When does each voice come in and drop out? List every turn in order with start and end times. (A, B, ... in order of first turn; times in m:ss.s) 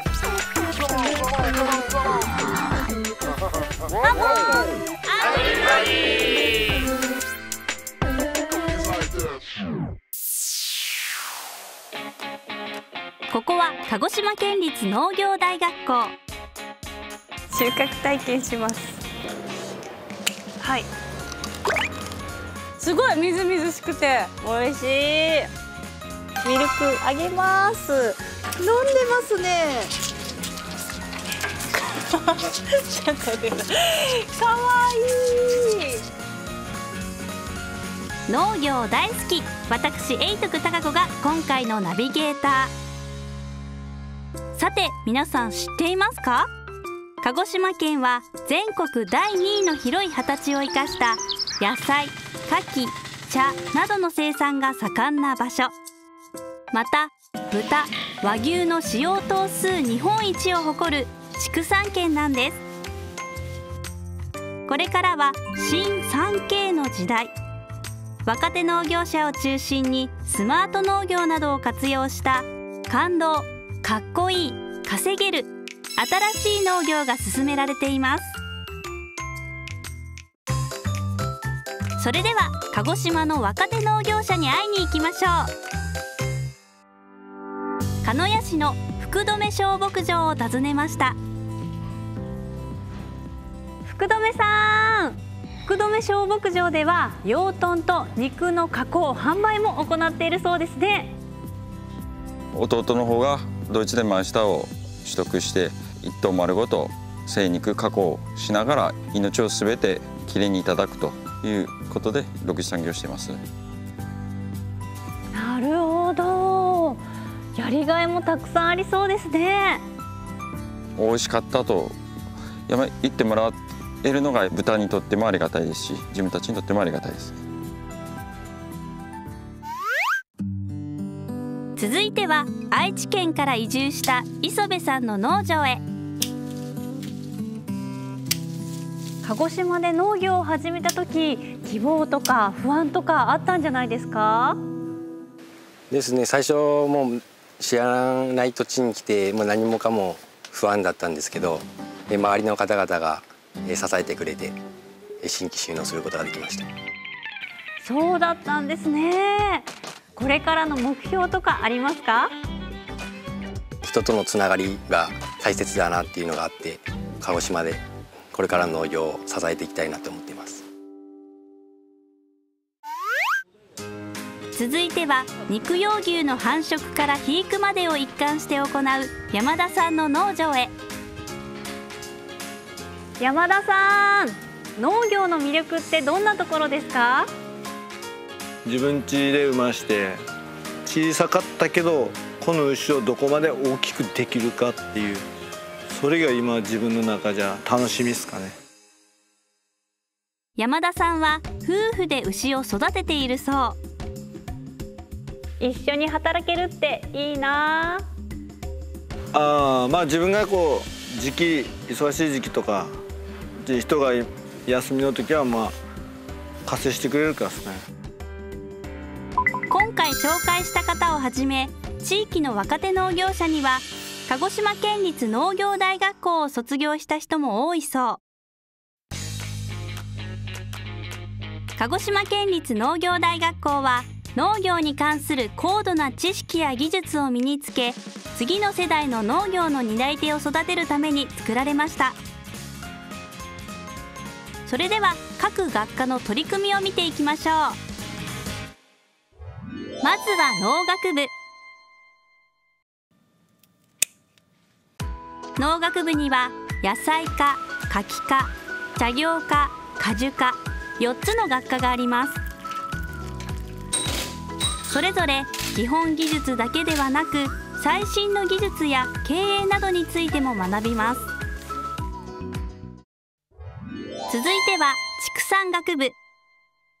0:13.3-0:16.1 A
0:17.5-0:19.0 B
0:20.6-0:20.9 B
0:22.8-0:25.5 B
0:26.4-0:29.9 B
0:32.9-0:35.9 B
0:38.3-0:42.7 A
0:44.5-0:46.5 A
0:47.2-0:55.7 A
0:56.7-1:02.6 A
1:04.7-1:07.3 A
1:08.2-1:18.3 A
1:22.0-1:25.5 A
1:28.0-1:31.2 A
1:33.8-1:41.1 B
1:42.5-1:53.4 C
1:55.3-1:57.0 B
1:57.6-1:59.8 B
2:01.0-2:02.0 C
2:02.7-2:07.4 C
2:11.8-2:15.8 A
2:19.2-2:24.6 B
2:25.9-2:34.5 D
2:35.2-2:36.7 D
2:37.8-2:42.3 B
2:43.8-2:47.8 D
2:48.3-2:50.6 D
2:54.5-3:00.7 A
3:03.2-3:07.3 B
3:08.6-3:10.2 E
3:10.8-3:15.2 E
3:15.9-3:18.5 E
3:20.6-3:23.8 A
3:25.6-3:28.0 B
3:29.3-3:32.9 E
3:33.6-3:35.7 E
3:36.6-3:37.8 E
3:39.7-3:48.2 A
3:51.8-4:02.2 A
4:04.6-4:07.8 A
4:10.0-4:11.3 A
4:15.6-4:22.4 A
4:24.9-4:31.2 A
4:34.3-4:36.2 A